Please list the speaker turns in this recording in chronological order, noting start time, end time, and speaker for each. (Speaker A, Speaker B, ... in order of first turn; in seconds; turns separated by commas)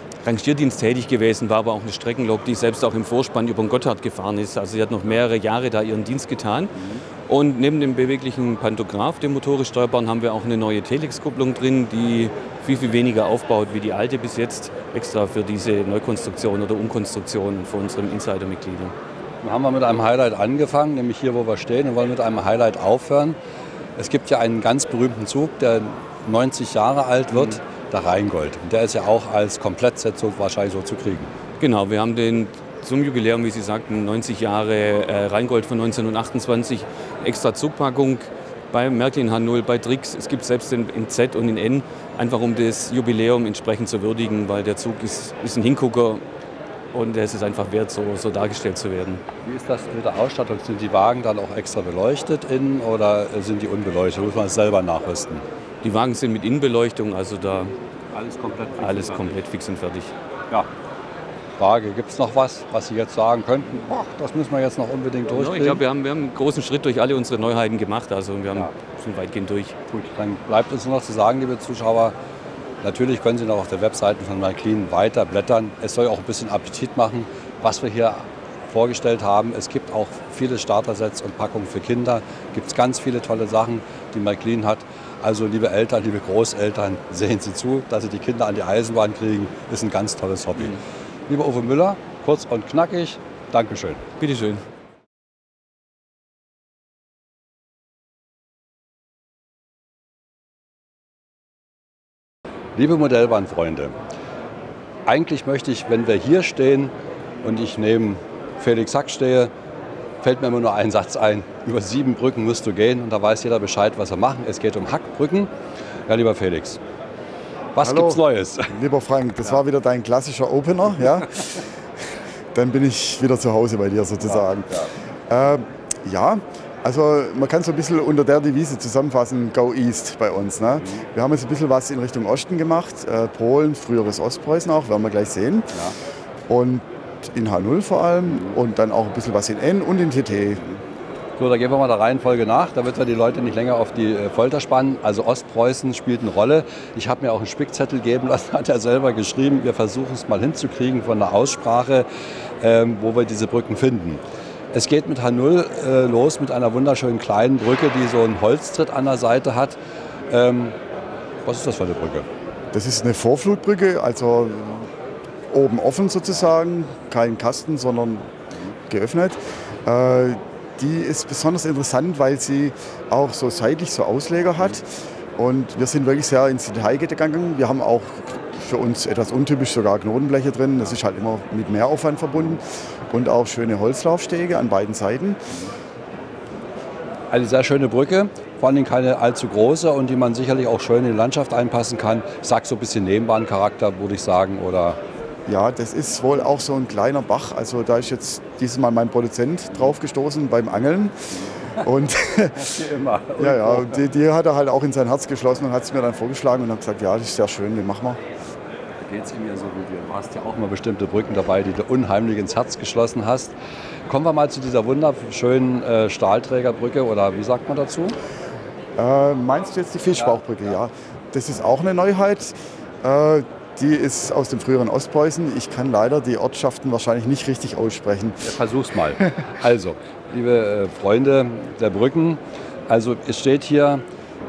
Speaker A: 0.2-6.7, Speaker B: 6.8-7.0, Speaker A: 7.3-18.9, Speaker B: 19.4-23.4, Speaker B: 23.9-31.3, Speaker A: 31.6-46.2, Speaker A: 46.9-49.2, Speaker B: 49.4-55.4, Speaker A: 55.8-57.7, Speaker B: 58.1-59.3, Speaker A: 58.8-60.1, Speaker B: 61.6-65.8, Speaker A: 65.3-69.8, Speaker B: 69.9-72.1, Speaker B: 72.8-94.0, Speaker A: 94.2-94.6, Speaker B: 102.7-103.9, Speaker B: 105.0-106.9, Speaker B: 107.4-109.5, Speaker B: 110.2-115.5, Speaker B: 116.1-116.8, Speaker B: 117.8-118.8, Speaker C: 117.8-121.6, Speaker C: 122.5-135.8, Speaker C: 136.5-140.7, Speaker B: 141.4-152.1, Speaker B: 152.6-154.2, Speaker B: 154.7-159.8, Speaker B: 160.3-160.8, Speaker B: 161.4-162.3, Speaker C: 162.7-164.9, Speaker C: 165.5-168.3, Speaker C: 168.9-174.8, Speaker C: 175.3-185.4, Speaker B: 187.3-195.0, Speaker C: 195.5-202.8, Speaker B: 202.6-204.0, Speaker C: 203.4-208.2, Speaker B: 209.0-213.5, Speaker B: 214.1-218.1, Speaker C: 219.0-228.4, Speaker B: 228.4-234.0